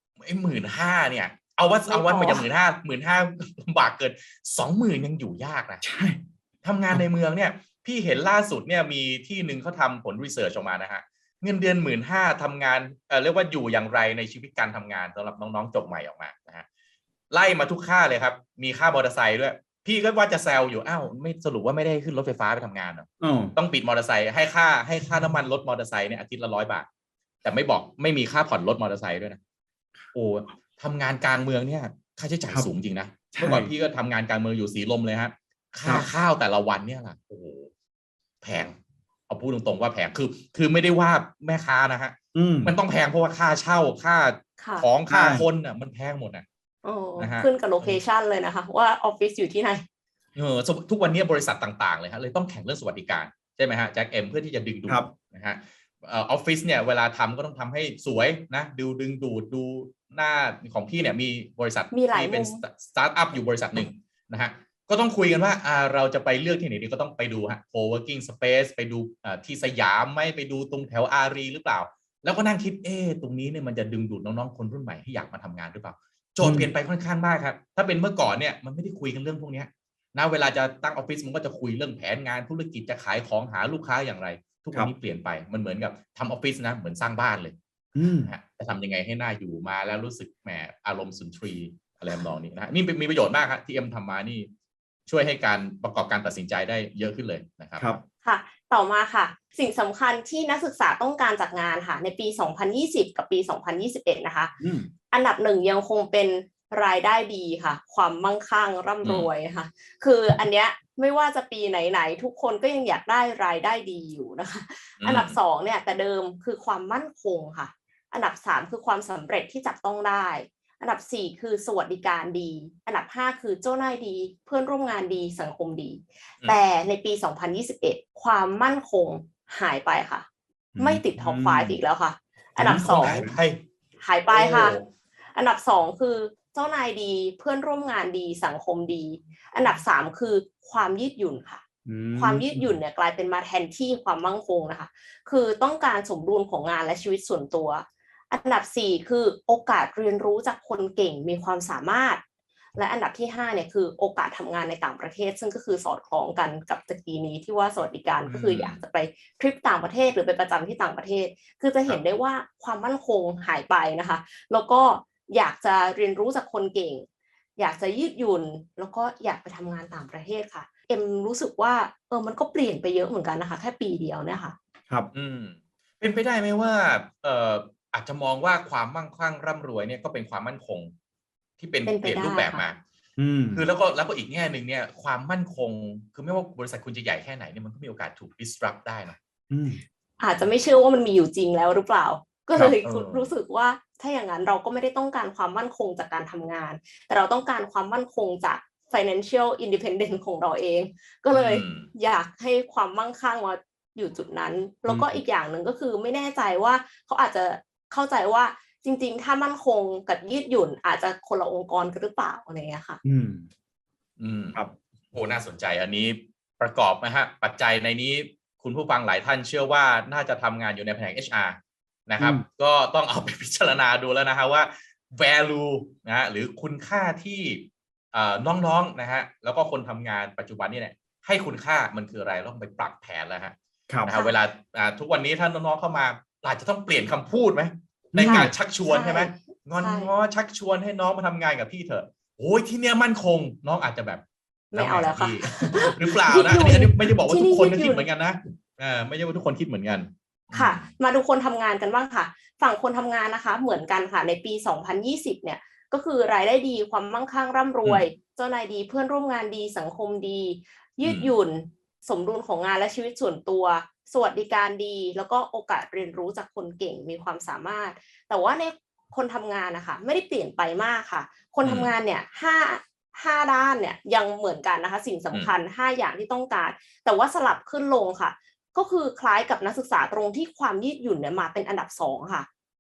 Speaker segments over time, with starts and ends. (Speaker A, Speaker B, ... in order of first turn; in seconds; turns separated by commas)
Speaker A: 0.2-5.8, Speaker B: 1.9-2.5, Speaker C: 5.8-6.2, Speaker A: 6.6-16.6, Speaker A: 17.3-26.9, Speaker C: 23.2-23.6, Speaker A: 27.4-29.4, Speaker A: 30.1-37.7, Speaker C: 33.3-33.7, Speaker A: 38.4-38.8, Speaker A: 39.3-46.5, Speaker C: 42.3-42.7, Speaker B: 44.6-44.9, Speaker C: 45.1-45.5, Speaker B: 46.8-49.8, Speaker A: 47.2-48.0, Speaker A: 50.4-94.5, Speaker B: 61.9-62.6, Speaker C: 76.4-76.7, Speaker C: 88.0-88.3, Speaker A: 95.1-98.0, Speaker B: 98.2-104.5, Speaker C: 104.6-104.9, Speaker B: 105.1-130.3, Speaker A: 109.0-109.3, Speaker A: 115.0-115.4, Speaker C: 130.8-131.8, Speaker B: 130.8-133.2, Speaker C: 132.6-133.3, Speaker A: 132.6-133.6, Speaker B: 134.0-134.8, Speaker A: 134.3-134.9, Speaker B: 135.4-141.6, Speaker C: 141.9-142.8, Speaker B: 142.2-152.2, Speaker B: 152.8-167.1, Speaker A: 158.2-158.8, Speaker B: 167.6-174.6, Speaker A: 175.1-180.9, Speaker A: 181.6-182.8, Speaker B: 181.9-182.7, Speaker C: 183.2-183.7, Speaker A: 183.5-189.2, Speaker C: 189.5-189.8, Speaker B: 190.2-213.0, Speaker A: 192.8-193.3, Speaker A: 201.3-201.9, Speaker C: 204.9-205.2, Speaker C: 213.0-213.5, Speaker A: 214.2-214.6, Speaker A: 215.1-221.6, Speaker A: 222.1-250.9, Speaker C: 222.2-222.4, Speaker B: 234.1-234.3, Speaker C: 238.1-238.5, Speaker B: 238.2-240.1, Speaker B: 244.7-248.1, Speaker B: 250.5-282.5, Speaker A: 261.0-261.3, Speaker A: 271.6-271.9